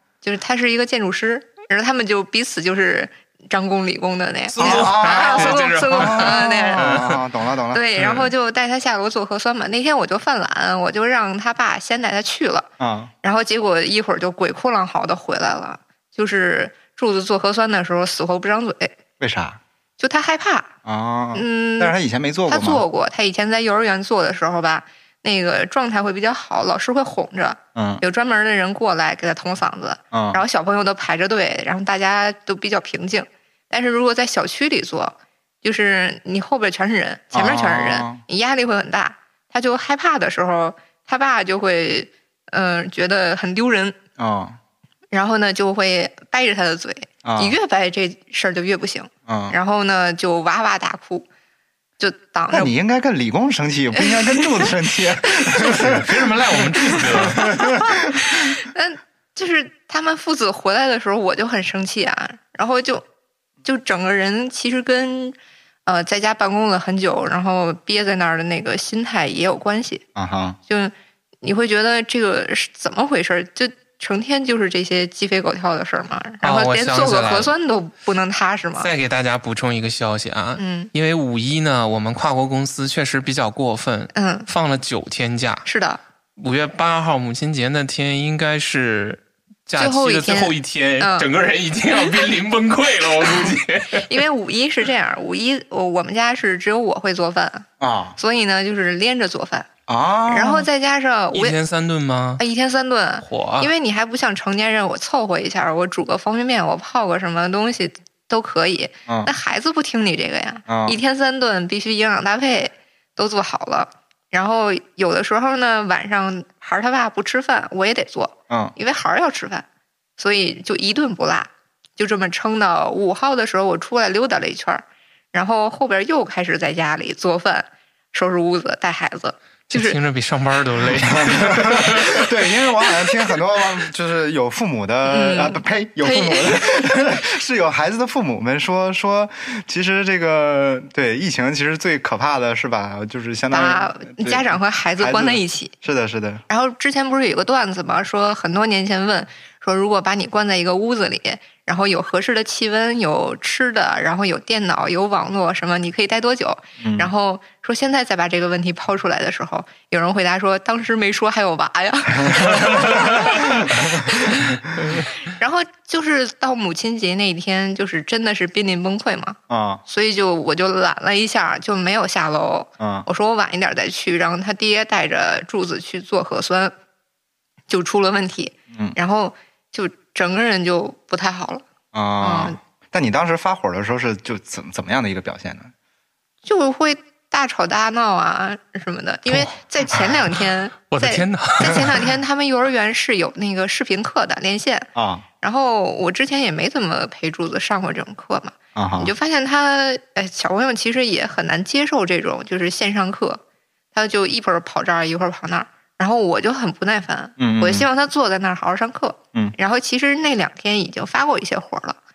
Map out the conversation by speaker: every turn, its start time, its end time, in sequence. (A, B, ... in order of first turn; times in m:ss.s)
0:00.2-0:07.0 A
0:04.5-0:07.2 B
0:04.6-0:07.8 C
0:07.7-0:12.7 A
0:08.0-0:08.3 B
0:12.8-0:13.1 C
0:13.2-0:18.9 A
0:19.2-0:19.6 C
0:20.0-0:20.7 A
0:20.8-0:22.8 C
0:21.3-0:21.9 A
0:22.5-0:44.0 A
0:27.7-0:28.0 C
0:30.1-0:30.4 C
0:37.3-0:38.2 C
0:44.2-0:44.6 C
0:45.1-0:51.3 A
0:47.2-0:47.5 C
0:49.3-0:49.6 C
0:52.0-0:52.7 A
0:52.5-0:58.5 C
0:54.0-0:54.7 A
0:55.6-0:57.5 B
0:57.4-1:03.0 A
1:03.6-1:05.3 A
1:05.8-1:10.0 A
1:10.1-1:10.6 C
1:10.7-1:18.9 A
1:16.4-1:17.5 B
1:18.8-1:25.7 B
1:20.6-1:20.9 A
1:24.1-1:24.5 A
1:25.6-1:26.0 A
1:26.4-1:34.1 B
1:29.8-1:31.3 A
1:33.9-1:37.6 A
1:37.8-1:38.2 C
1:38.2-1:39.7 A
1:39.9-1:40.7 C
1:40.3-1:41.6 A
1:41.3-1:42.4 B
1:42.4-1:59.6 A
1:43.2-1:43.7 B
1:50.7-1:51.0 C
1:58.5-1:58.7 C
2:00.2-2:10.0 A
2:09.7-2:12.3 B
2:11.0-2:26.4 C
2:15.0-2:17.0 A
2:23.5-2:25.7 A
2:26.5-2:56.7 A
2:36.8-2:37.1 C
2:42.4-2:43.0 C
2:49.5-2:49.8 C
2:52.8-2:53.1 C
2:57.7-3:01.6 A
3:01.9-3:05.7 C
3:02.2-3:02.6 A
3:06.4-3:14.9 A
3:10.9-3:12.0 B
3:14.9-3:15.2 C
3:15.4-3:23.4 A
3:18.7-3:19.1 C
3:23.9-3:32.0 A
3:27.4-3:27.9 C